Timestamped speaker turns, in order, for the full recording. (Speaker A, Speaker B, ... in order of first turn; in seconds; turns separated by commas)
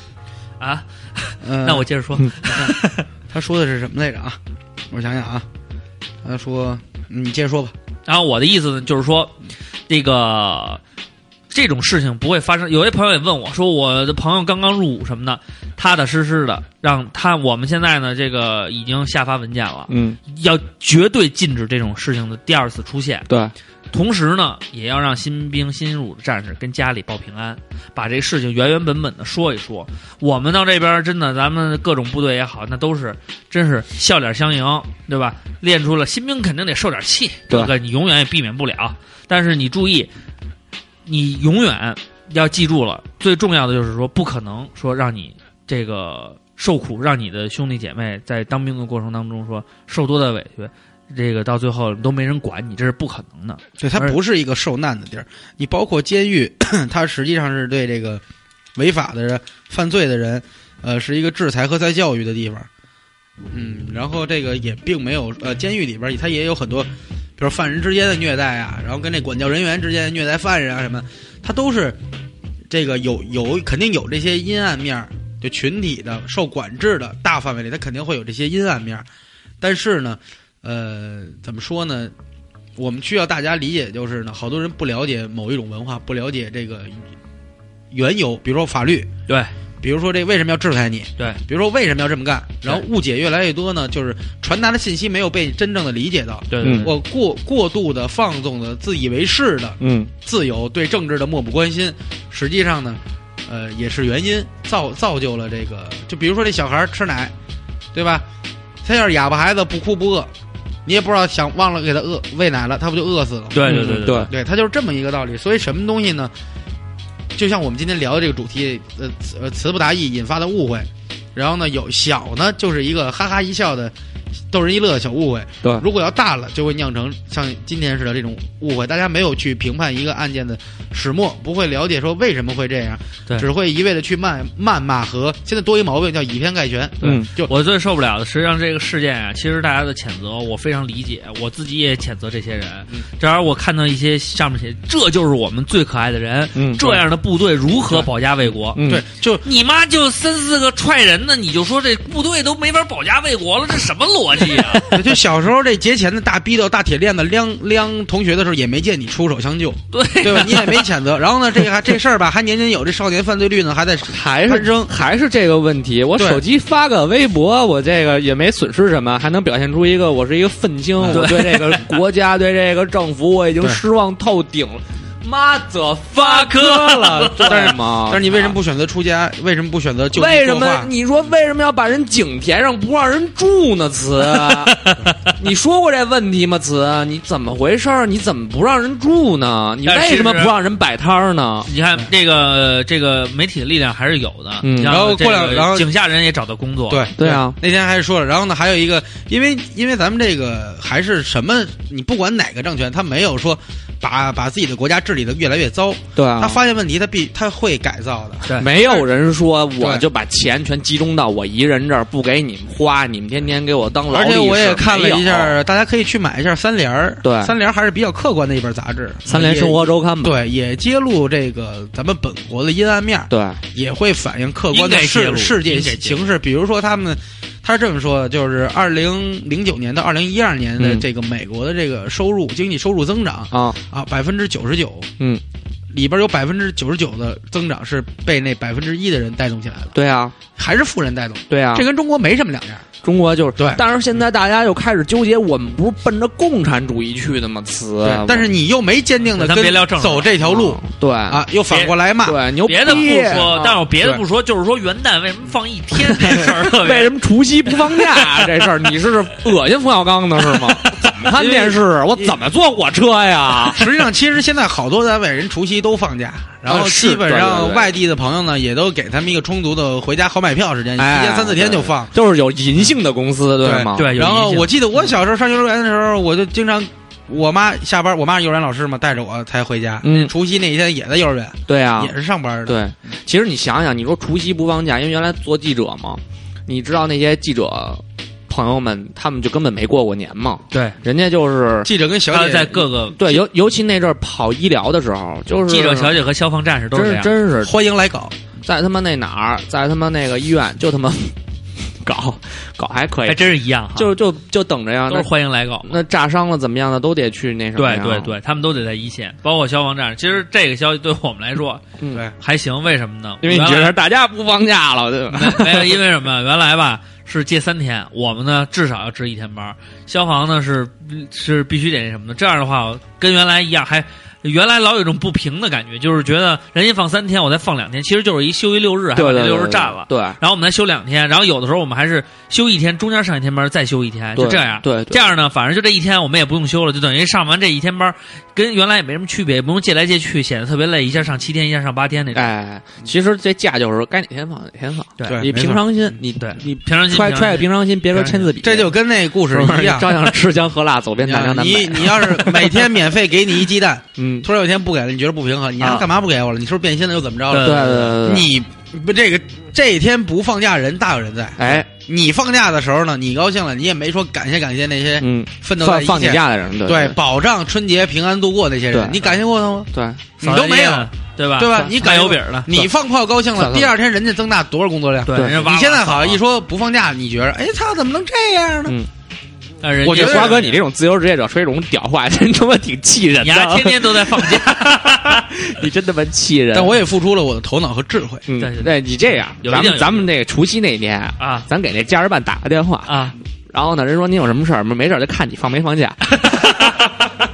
Speaker A: 0.6-3.1, Speaker B: 1.4-1.9, Speaker B: 2.5-2.7, Speaker B: 3.3-4.4, Speaker B: 4.9-5.5, Speaker B: 6.2-7.7, Speaker A: 8.1-9.3, Speaker A: 9.9-10.8, Speaker A: 11.5-23.3, Speaker C: 19.9-20.2, Speaker A: 23.9-40.1, Speaker A: 41.1-54.2, Speaker B: 53.8-58.2, Speaker B: 58.8-62.7, Speaker B: 63.5-72.0, Speaker B: 72.7-79.1, Speaker B: 79.6-82.1, Speaker B: 82.8-87.0, Speaker B: 87.9-89.1, Speaker B: 89.8-107.3, Speaker A: 96.5-96.9, Speaker C: 96.6-96.9, Speaker C: 99.8-100.1, Speaker B: 107.9-108.2, Speaker B: 108.8-110.3, Speaker B: 110.9-116.3, Speaker A: 113.5-114.3, Speaker C: 113.7-114.3, Speaker B: 117.3-123.9, Speaker B: 124.5-137.5, Speaker A: 137.0-148.8, Speaker C: 146.6-147.0, Speaker C: 148.8-149.0, Speaker B: 148.8-149.4, Speaker A: 149.4-155.0, Speaker B: 154.9-164.9, Speaker A: 159.9-160.9, Speaker C: 164.1-178.6, Speaker B: 166.2-166.4, Speaker B: 171.0-171.3, Speaker A: 171.1-172.0, Speaker A: 176.2-177.7, Speaker B: 177.4-180.9, Speaker C: 180.1-191.7, Speaker A: 184.2-185.3, Speaker A: 189.9-190.5, Speaker A: 191.7-197.1, Speaker C: 194.6-195.0, Speaker B: 194.8-195.9, Speaker B: 196.9-209.1, Speaker C: 197.2-197.6, Speaker C: 206.2-206.6, Speaker C: 208.6-215.6, Speaker B: 209.8-210.1, Speaker B: 214.1-235.1, Speaker C: 217.2-217.6, Speaker C: 219.3-220.4, Speaker C: 223.3-223.6, Speaker A: 224.7-226.2, Speaker C: 230.8-231.0, Speaker C: 233.5-233.8, Speaker B: 235.9-239.9, Speaker C: 239.9-240.4, Speaker B: 240.6-242.8, Speaker C: 241.5-241.9, Speaker C: 243.0-248.5, Speaker B: 243.6-243.8, Speaker B: 248.0-253.2, Speaker A: 249.3-250.3, Speaker C: 250.4-251.5, Speaker C: 252.2-254.0, Speaker A: 252.7-257.1, Speaker C: 256.1-263.8, Speaker A: 257.9-258.6, Speaker A: 260.5-261.3, Speaker B: 261.3-262.4, Speaker B: 263.7-272.1, Speaker C: 266.6-267.9, Speaker C: 271.0-274.1, Speaker B: 273.6-282.8, Speaker A: 274.0-274.7, Speaker C: 280.0-280.3, Speaker C: 281.7-282.1, Speaker C: 282.7-291.9, Speaker A: 290.7-291.0, Speaker B: 291.8-292.9, Speaker A: 292.3-293.4, Speaker C: 293.2-296.2, Speaker A: 295.6-297.3, Speaker C: 296.9-297.8, Speaker B: 297.6-298.4, Speaker C: 298.6-301.4, Speaker C: 301.9-305.3, Speaker A: 303.3-304.1, Speaker A: 305.1-306.0, Speaker C: 305.8-308.4, Speaker A: 307.8-311.8, Speaker C: 312.0-312.2, Speaker A: 312.4-313.9, Speaker C: 313.4-316.0, Speaker A: 315.3-342.5, Speaker C: 329.1-330.4, Speaker C: 334.4-335.3, Speaker C: 342.3-348.9, Speaker A: 345.2-345.4, Speaker B: 345.3-345.9, Speaker A: 346.4-348.5, Speaker B: 348.6-350.2, Speaker C: 349.5-352.9, Speaker B: 351.2-379.0, Speaker C: 354.2-354.5, Speaker A: 355.8-356.1, Speaker A: 357.5-358.1, Speaker C: 357.6-358.5, Speaker C: 361.6-361.9, Speaker C: 365.2-367.2, Speaker C: 368.9-369.4, Speaker C: 369.9-370.2, Speaker A: 370.4-372.7, Speaker C: 373.6-373.9, Speaker A: 375.3-376.4, Speaker C: 375.4-375.6, Speaker A: 379.8-380.8, Speaker B: 380.0-380.6, Speaker C: 380.1-387.0, Speaker A: 383.4-385.4, Speaker B: 386.7-388.4, Speaker C: 388.5-393.2, Speaker A: 388.6-388.9, Speaker A: 389.6-390.3, Speaker A: 391.4-391.6, Speaker A: 393.1-393.4, Speaker C: 393.7-396.4, Speaker A: 396.3-397.3